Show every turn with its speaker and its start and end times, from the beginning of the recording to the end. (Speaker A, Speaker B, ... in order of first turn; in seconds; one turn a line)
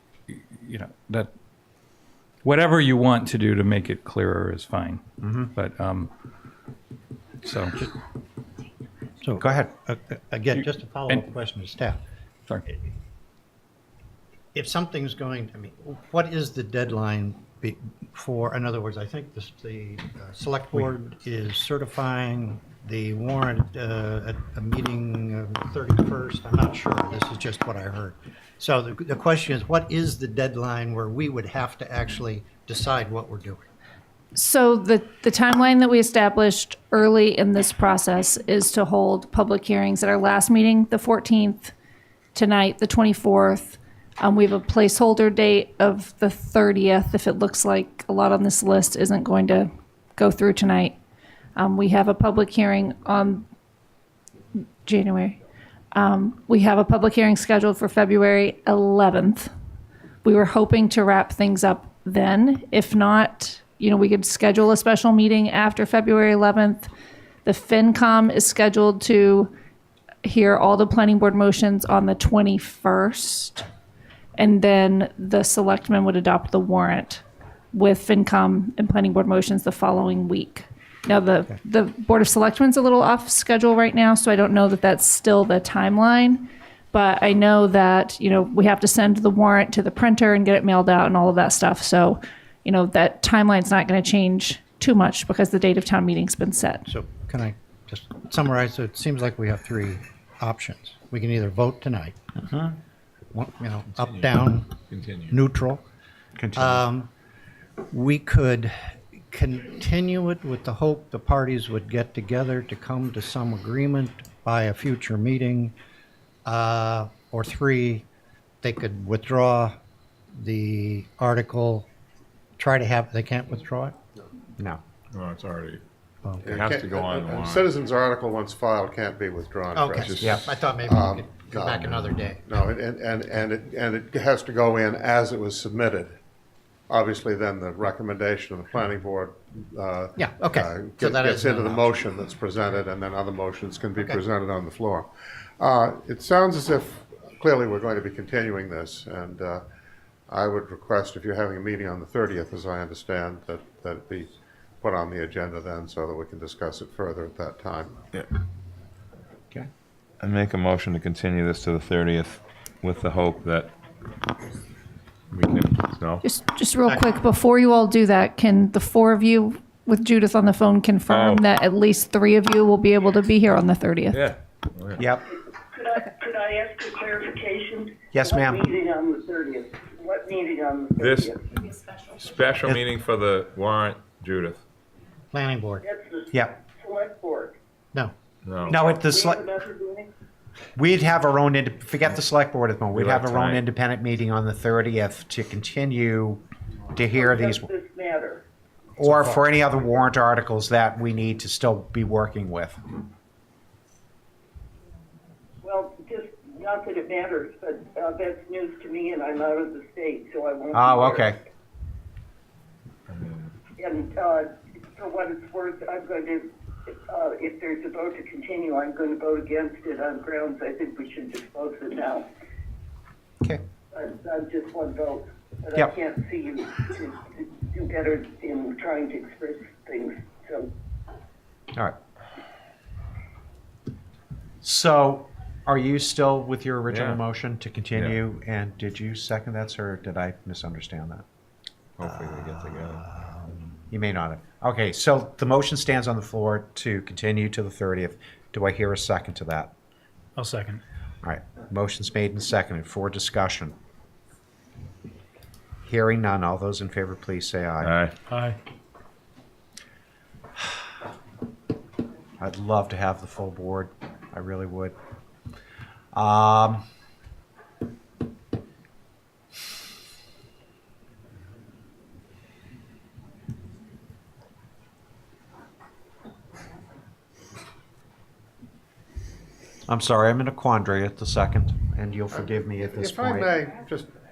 Speaker A: 0.3-1.3
Speaker A: 2.4-5.0
Speaker B: 5.2-5.5
Speaker A: 5.5-6.1
Speaker A: 7.4-7.8
Speaker C: 9.2-12.0
Speaker B: 9.4-9.7
Speaker C: 14.5-33.6
Speaker D: 34.3-41.7
Speaker D: 42.3-50.9
Speaker D: 51.5-53.4
Speaker D: 54.5-55.4
Speaker D: 55.9-59.5
Speaker D: 60.2-66.9
Speaker D: 67.4-69.5
Speaker D: 70.2-73.6
Speaker D: 74.4-77.2
Speaker D: 77.7-96.9
Speaker C: 96.9-102.2
Speaker B: 102.3-102.8
Speaker C: 103.3-105.8
Speaker E: 104.0-104.4
Speaker E: 104.9-105.3
Speaker B: 106.4-106.8
Speaker C: 106.5-107.1
Speaker C: 107.9-115.7
Speaker C: 116.4-118.0
Speaker C: 118.6-119.8
Speaker C: 120.3-121.8
Speaker C: 122.6-124.0
Speaker E: 125.1-125.8
Speaker C: 126.2-126.5
Speaker F: 126.4-136.2
Speaker E: 126.5-127.7
Speaker C: 129.7-132.5
Speaker F: 136.9-145.1
Speaker C: 140.2-142.0
Speaker C: 143.9-144.2
Speaker F: 145.6-149.6
Speaker F: 150.3-157.9
Speaker E: 160.2-163.7
Speaker E: 165.3-166.2
Speaker D: 166.2-174.2
Speaker C: 166.8-167.1
Speaker E: 171.1-171.4
Speaker E: 174.1-175.0
Speaker B: 175.0-175.3
Speaker G: 175.3-181.4
Speaker B: 178.1-178.6
Speaker E: 181.0-181.3
Speaker E: 182.1-184.6
Speaker C: 185.3-185.8
Speaker G: 185.8-187.6
Speaker B: 186.3-186.6
Speaker E: 188.4-188.7
Speaker G: 188.5-190.1
Speaker B: 188.7-189.4
Speaker B: 190.8-197.7
Speaker E: 192.9-193.6
Speaker G: 197.1-198.4
Speaker B: 199.0-202.8
Speaker C: 199.0-199.4
Speaker G: 205.6-211.3
Speaker B: 210.7-211.4
Speaker E: 213.1-213.5
Speaker G: 213.8-222.3
Speaker G: 223.9-230.7
Speaker B: 234.6-241.2
Speaker E: 236.9-237.2
Speaker E: 237.9-238.2
Speaker E: 242.0-243.1
Speaker B: 243.9-249.7
Speaker A: 250.3-250.8
Speaker B: 251.2-253.7
Speaker B: 255.8-257.9
Speaker E: 257.8-258.1
Speaker A: 258.3-258.5
Speaker B: 262.4-264.9
Speaker B: 266.1-266.8
Speaker B: 279.9-283.5
Speaker F: 282.3-284.1